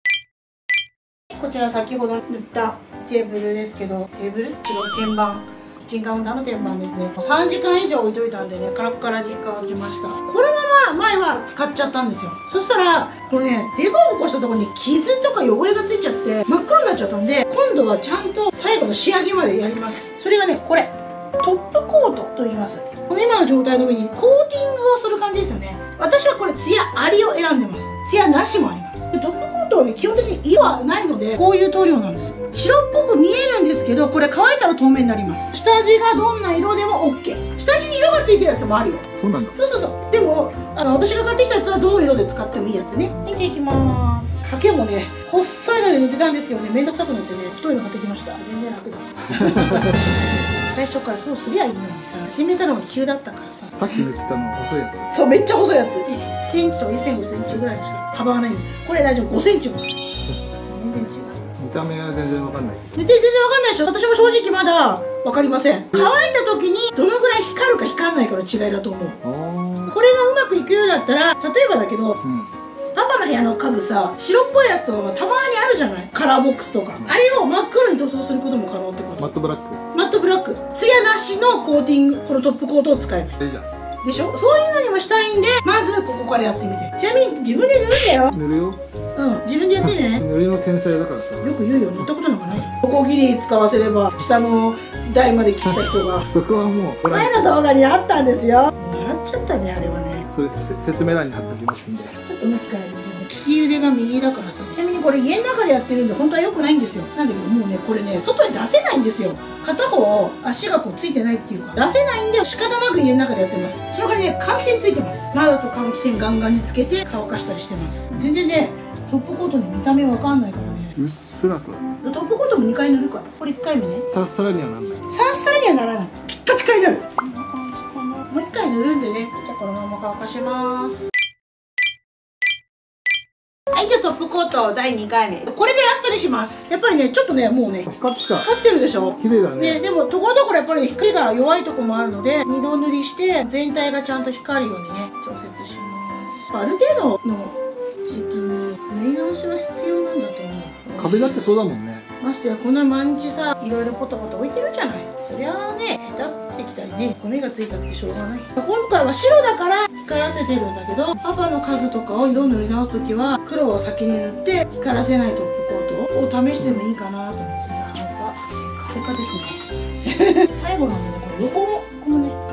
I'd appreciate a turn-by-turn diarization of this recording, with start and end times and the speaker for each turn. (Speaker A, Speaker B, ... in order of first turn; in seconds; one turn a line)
Speaker A: 1.3-53.8
Speaker B: 39.1-39.5
Speaker B: 53.8-55.1
Speaker A: 55.1-59.8
Speaker A: 60.6-61.4
Speaker B: 61.6-62.9
Speaker A: 62.9-69.2
Speaker B: 69.2-69.9
Speaker A: 69.9-72.2
Speaker B: 72.2-72.5
Speaker A: 72.9-79.3
Speaker B: 79.2-79.8
Speaker A: 79.9-83.4
Speaker B: 83.4-83.7
Speaker A: 84.0-88.3
Speaker B: 88.3-88.8
Speaker A: 89.1-90.2
Speaker B: 89.8-91.6
Speaker A: 91.4-96.3
Speaker B: 96.2-97.4
Speaker A: 97.1-100.2
Speaker B: 100.3-102.1
Speaker A: 102.2-121.0
Speaker B: 121.0-121.8
Speaker A: 122.0-124.0
Speaker B: 124.1-125.0
Speaker A: 125.1-131.1
Speaker A: 133.7-137.9
Speaker B: 137.8-138.5
Speaker A: 138.4-151.5
Speaker B: 139.2-139.8
Speaker B: 150.9-152.1
Speaker A: 152.2-172.4